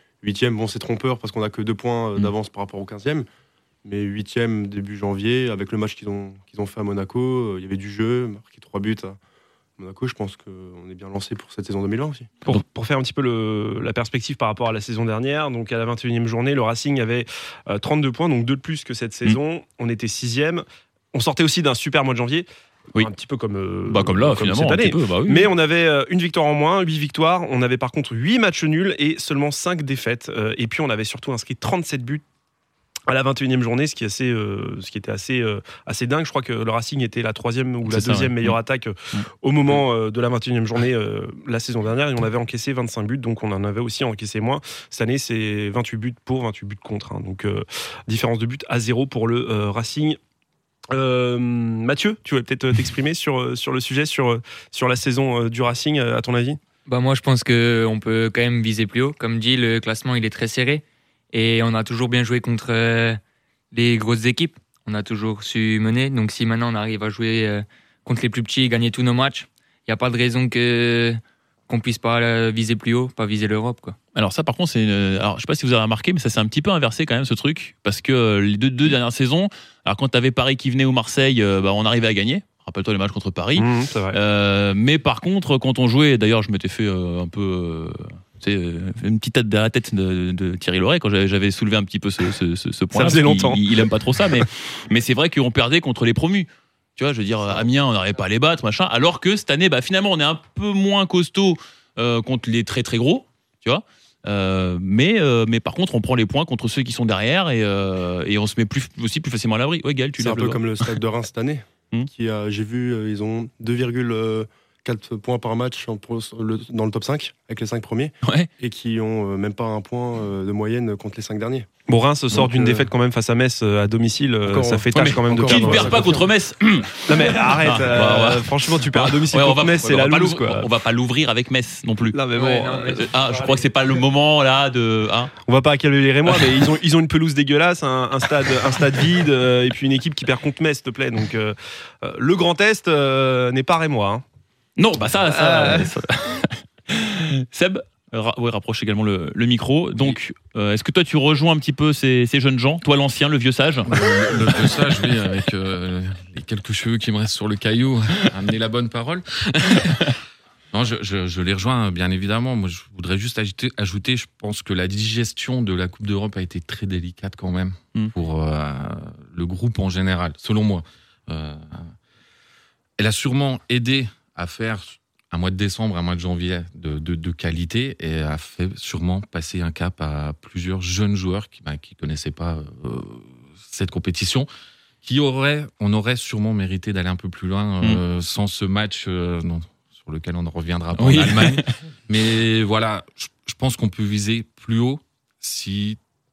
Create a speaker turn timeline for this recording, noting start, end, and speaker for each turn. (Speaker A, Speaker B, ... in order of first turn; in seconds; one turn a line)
Speaker A: 0.2-3.3
Speaker A: 3.8-9.2
Speaker A: 9.8-12.3
Speaker B: 12.4-32.2
Speaker C: 23.9-25.5
Speaker B: 33.1-50.2
Speaker C: 37.9-38.6
Speaker C: 39.1-39.8
Speaker B: 50.9-56.6
Speaker D: 56.9-63.2
Speaker D: 63.7-74.0
Speaker C: 74.1-111.0
Speaker B: 83.6-84.2
Speaker B: 92.9-93.7
Speaker A: 110.2-121.7
Speaker C: 118.2-118.5
Speaker B: 121.9-126.2
Speaker A: 122.3-122.9
Speaker A: 124.4-126.3
Speaker C: 124.9-132.2
Speaker B: 127.1-130.7
Speaker B: 132.1-133.1
Speaker D: 132.3-133.7
Speaker C: 132.9-135.3
Speaker B: 135.4-144.2
Speaker C: 136.3-136.7
Speaker C: 144.8-154.8
Speaker B: 145.3-145.9
Speaker E: 153.8-160.1
Speaker E: 160.7-171.9
Speaker E: 173.0-184.5
Speaker E: 185.0-196.0
Speaker C: 190.9-191.7